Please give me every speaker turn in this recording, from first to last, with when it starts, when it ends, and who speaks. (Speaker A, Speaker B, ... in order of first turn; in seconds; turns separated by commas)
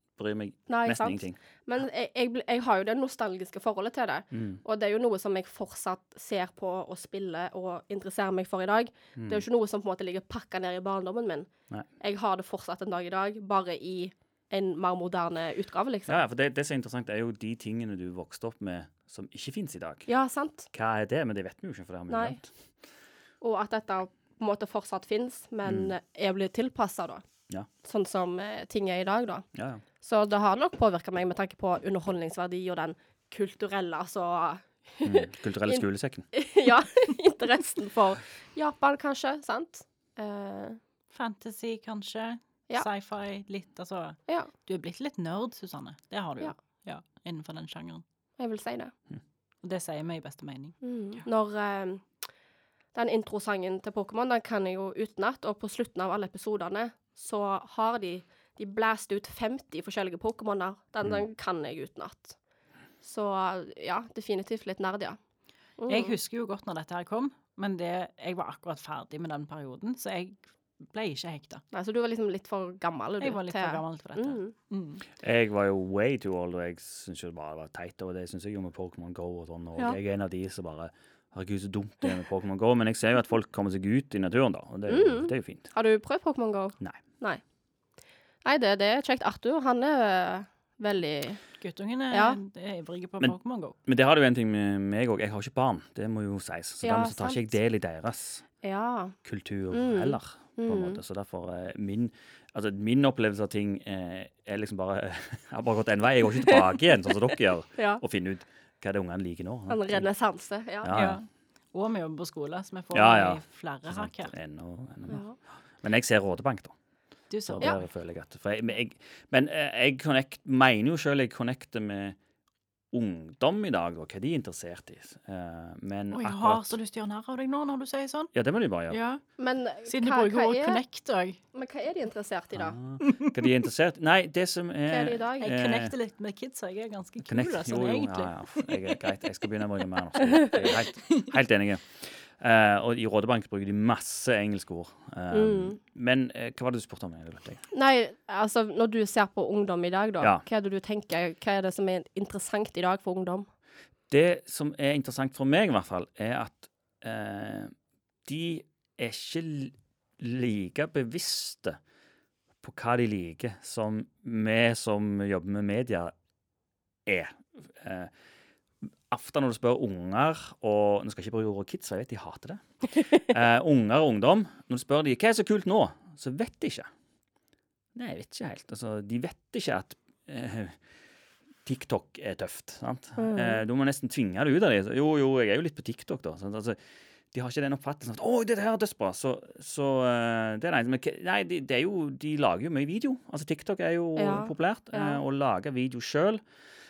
Speaker A: 0.2-1.4, Speaker B: 0.7-16.2, Speaker A: 4.3-4.6, Speaker A: 9.2-9.4, Speaker A: 16.1-20.1, Speaker B: 20.1-20.7, Speaker A: 20.7-22.5, Speaker B: 22.1-22.4, Speaker B: 23.4-27.2, Speaker A: 25.7-25.9, Speaker B: 27.8-29.5, Speaker A: 29.6-29.8, Speaker B: 30.0-40.8, Speaker A: 35.0-36.3, Speaker C: 41.1-48.0, Speaker B: 48.4-48.9, Speaker C: 49.6-50.8, Speaker B: 50.8-52.1, Speaker B: 52.9-62.4, Speaker B: 63.0-65.2, Speaker B: 65.8-66.2, Speaker C: 65.9-71.6, Speaker B: 71.7-74.5, Speaker C: 73.2-75.0, Speaker A: 75.2-85.7, Speaker B: 84.9-87.4, Speaker B: 88.5-91.4, Speaker C: 91.6-93.8, Speaker B: 92.1-92.4, Speaker A: 93.9-98.5, Speaker B: 96.8-97.5, Speaker B: 98.6-99.2, Speaker A: 99.2-110.1, Speaker B: 99.7-101.0, Speaker B: 106.4-108.0, Speaker B: 109.7-111.0, Speaker A: 110.8-111.2, Speaker C: 110.9-114.3, Speaker A: 112.9-115.2, Speaker B: 115.1-115.4, Speaker A: 115.8-116.7, Speaker C: 117.3-117.8, Speaker A: 117.5-122.2, Speaker A: 122.9-126.8, Speaker C: 126.1-128.3, Speaker A: 128.3-129.0, Speaker C: 128.9-129.2, Speaker B: 129.4-130.8, Speaker C: 129.9-131.4, Speaker B: 131.5-132.8, Speaker A: 132.6-135.9, Speaker C: 133.0-133.3, Speaker B: 134.9-135.5, Speaker C: 135.4-138.9, Speaker A: 137.2-147.6, Speaker B: 145.3-145.8, Speaker B: 147.7-153.5, Speaker A: 154.1-157.7, Speaker A: 158.2-161.8, Speaker A: 162.6-166.1, Speaker A: 167.1-168.1, Speaker A: 169.1-176.9, Speaker A: 177.9-180.8, Speaker A: 181.7-186.8, Speaker B: 183.2-183.6, Speaker A: 187.3-196.4, Speaker B: 194.2-195.2